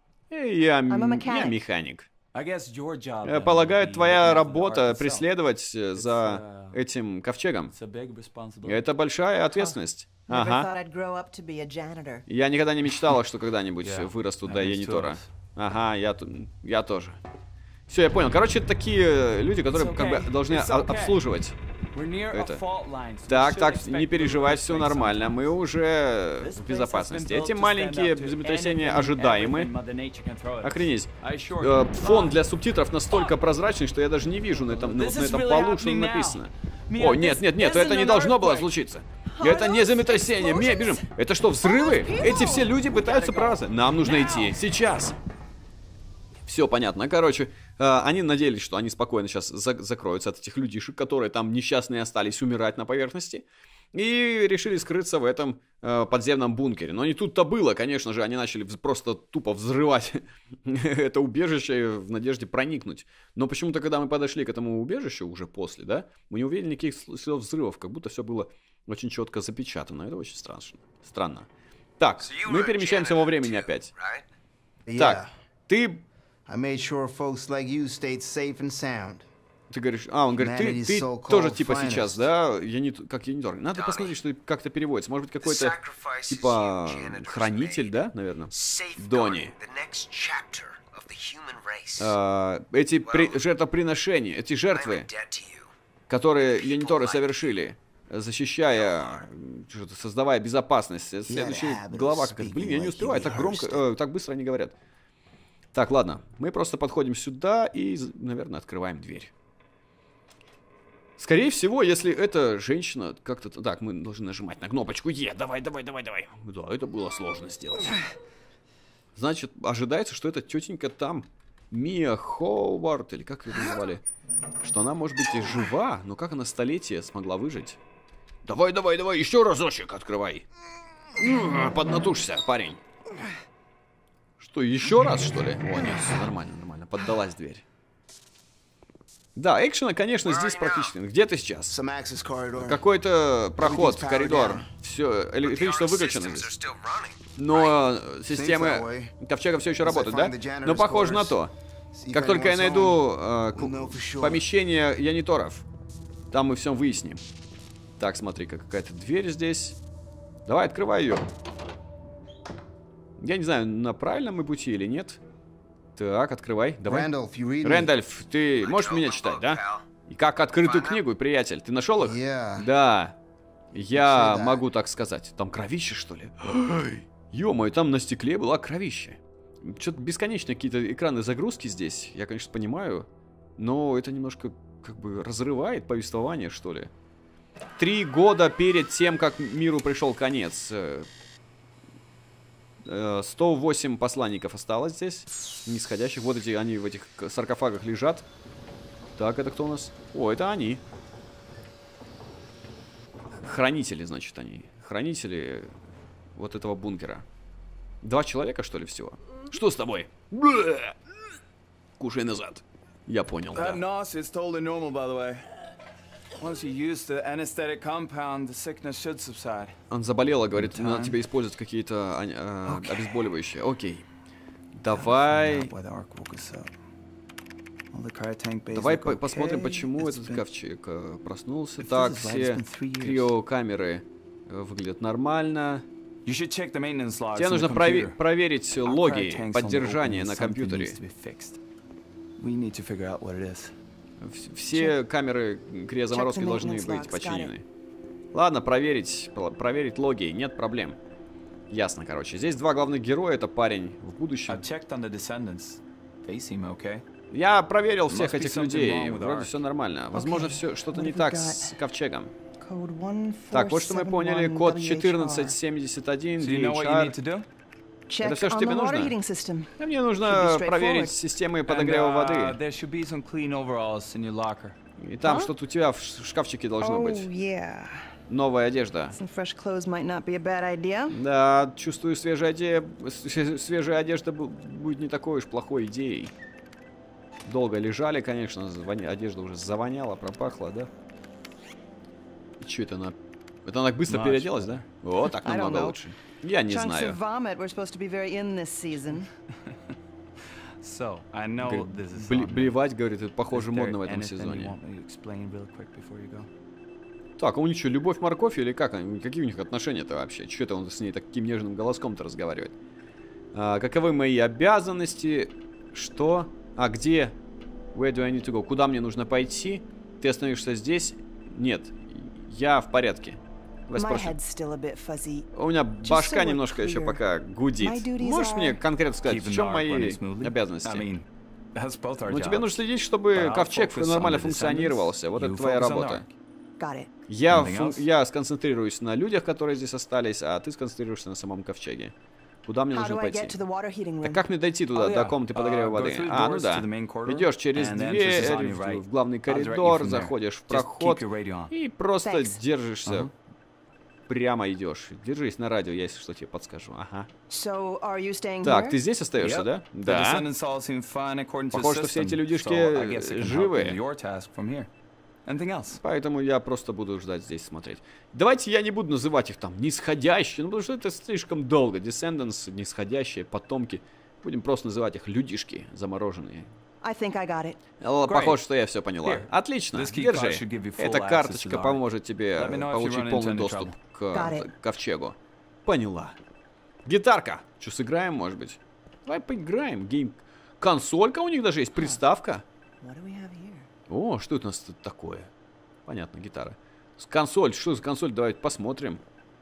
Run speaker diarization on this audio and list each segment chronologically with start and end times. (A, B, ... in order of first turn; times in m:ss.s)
0:00.3-0:02.1 A
0:00.9-0:01.6 B
0:02.3-0:05.3 C
0:03.2-0:07.8 A
0:06.0-0:06.8 C
0:07.7-0:08.9 C
0:08.6-0:10.7 A
0:09.5-0:12.2 B
0:12.3-0:17.2 A
0:13.8-0:15.3 C
0:17.9-0:21.6 A
0:19.7-0:21.2 C
0:21.9-0:25.5 C
0:22.3-0:22.6 A
0:23.3-0:29.7 A
0:26.4-0:32.4 C
0:30.6-0:45.2 A
0:33.1-0:33.5 C
0:34.5-0:38.7 C
0:39.3-0:41.1 B
0:41.6-0:43.4 B
0:43.0-0:43.9 C
0:44.0-0:44.6 B
0:46.5-1:11.5 A
1:12.0-1:13.9 A
1:12.2-1:14.3 D
1:14.9-1:15.3 E
1:15.0-1:16.0 A
1:16.5-1:19.3 E
1:19.7-1:25.8 A
1:20.4-1:22.3 E
1:23.8-1:24.2 D
1:25.4-1:32.2 D
1:26.3-1:29.5 A
1:32.0-1:35.1 A
1:33.1-1:33.4 D
1:34.7-1:35.7 D
1:36.1-1:44.8 A
1:36.5-1:37.6 D
1:38.7-1:39.2 D
1:41.3-1:43.9 E
1:45.7-1:49.3 A
1:51.2-1:58.0 A
1:59.2-2:04.0 A
2:04.6-2:07.8 A
2:08.4-2:10.5 A
2:11.2-2:12.8 A
2:14.4-2:17.6 A
2:19.4-2:21.8 A
2:20.2-2:20.9 D
2:21.7-2:22.8 E
2:22.6-2:26.5 A
2:23.6-2:24.7 E
2:25.4-2:27.8 D
2:27.4-2:31.5 A
2:28.3-2:29.1 E
2:29.8-2:31.4 E
2:31.9-2:34.4 E
2:32.1-2:35.6 A
2:36.3-2:37.2 A
2:38.0-2:39.8 A
2:40.5-2:41.2 A
2:43.2-2:45.2 A
2:46.0-2:47.1 A
2:46.9-2:47.9 E
2:47.6-2:53.2 A
2:48.6-2:49.9 D
2:50.6-2:51.0 D
2:52.0-2:52.7 E
2:53.7-3:06.9 A
2:53.9-2:54.6 E
3:07.8-3:11.1 A
3:12.8-3:18.3 A
3:19.2-3:20.8 A
3:23.4-3:25.7 A
3:26.4-3:27.2 A
3:28.0-3:31.0 A
3:32.0-3:33.8 A
3:33.5-3:35.5 C
3:36.4-3:39.8 C
3:39.9-3:44.1 A
3:40.5-3:41.2 C
3:42.6-3:43.1 C
3:44.8-3:45.7 A
3:44.9-3:46.7 C
3:47.9-3:50.4 C
3:48.7-3:55.9 A
3:51.8-3:53.3 C
3:56.2-3:58.2 C
3:57.4-4:01.0 A
3:58.8-4:01.6 C
4:02.4-4:03.7 C
4:04.2-4:07.7 A
4:06.1-4:07.5 B
4:08.3-4:11.0 A
4:11.7-4:14.6 A
4:14.5-4:17.0 C
4:17.3-4:22.3 A
4:18.1-4:19.6 C
4:20.1-4:21.8 B
4:22.6-4:25.6 B
4:23.5-4:27.2 A
4:26.4-4:27.5 C
4:28.1-4:31.2 B
4:28.2-4:29.2 A
4:29.8-4:32.6 A
4:31.7-4:34.8 C
4:35.0-4:37.3 A
4:35.2-4:35.5 B
4:36.8-4:38.1 B
4:38.3-4:39.2 A
4:39.1-4:41.2 B
4:41.1-4:46.3 A
4:47.4-4:50.9 A
4:52.6-4:57.2 A
4:54.1-4:54.9 C
4:55.4-4:56.0 B
4:56.7-4:59.3 B
5:00.8-5:02.8 C
5:01.6-5:04.8 A
5:03.5-5:06.5 C
5:07.4-5:12.7 A
5:13.5-5:17.4 A
5:17.9-5:24.4 A
5:24.0-5:25.5 B
5:25.5-5:31.1 A
5:26.0-5:27.2 B
5:27.8-5:28.8 B
5:29.2-5:32.7 C
5:32.3-5:36.2 A
5:33.3-5:36.3 C
5:36.8-5:37.1 B
5:37.3-5:42.1 A
5:37.5-5:38.0 C
5:42.6-5:43.6 A
5:42.9-5:44.4 B
5:44.2-5:53.3 A
5:44.9-5:51.7 C
5:52.2-5:52.6 B
5:53.0-5:53.3 C
5:54.3-5:57.3 A
5:57.5-5:59.0 B
5:58.6-6:00.5 A
5:59.4-6:04.9 C
6:01.7-6:04.0 A
6:05.5-6:06.0 C
6:06.0-6:16.7 A
6:17.0-6:17.8 B
6:18.0-6:26.4 A
6:18.3-6:18.6 C
6:19.2-6:22.0 C
6:22.6-6:24.0 C
6:24.3-6:24.7 B
6:27.1-6:32.6 A
6:33.0-6:33.9 B
6:34.1-6:35.5 A
6:36.1-6:39.2 A